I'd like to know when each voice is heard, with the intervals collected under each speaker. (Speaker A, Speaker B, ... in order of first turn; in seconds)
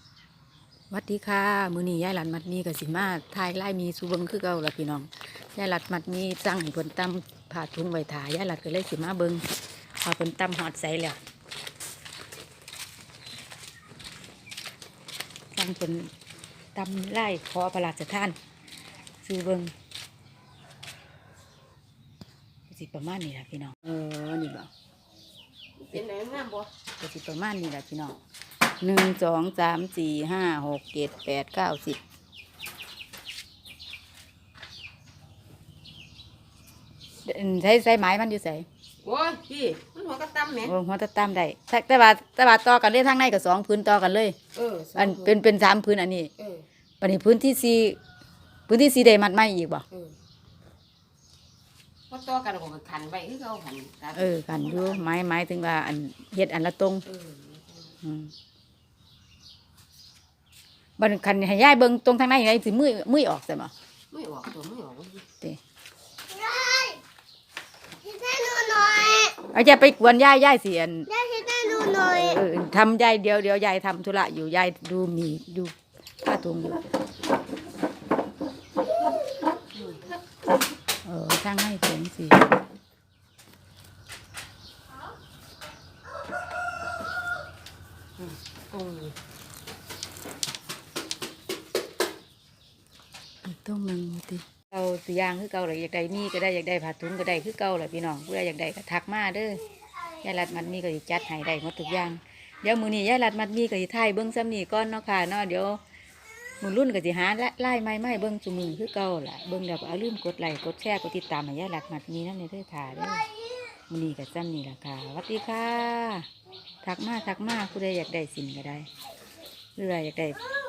Speaker A: 0.9-9.5, 10.0-11.2, 15.5-16.1, 16.7-18.4, 19.2-19.7, 22.7-24.7, 27.0-28.2, 28.8-32.0, 37.2-38.6, 40.6-44.4, 45.0-46.3, 47.0-48.0, 48.7-49.9, 54.1-57.0, 58.0-58.3, 61.0-63.7, 69.4-71.2, 71.9-76.8, 81.0-82.5, 93.4-99.6, 100.2-105.8, 106.6-113.3, 113.9-116.3, 116.8-118.9, 119.8-120.4
Speaker B: 25.8-26.7, 39.0-40.7, 44.5-45.4, 46.4-46.6, 52.1-55.0, 57.1-57.8, 64.1-65.2, 68.8-69.3, 88.2-89.1
Speaker C: 66.4-67.0, 68.0-69.0, 71.2-72.0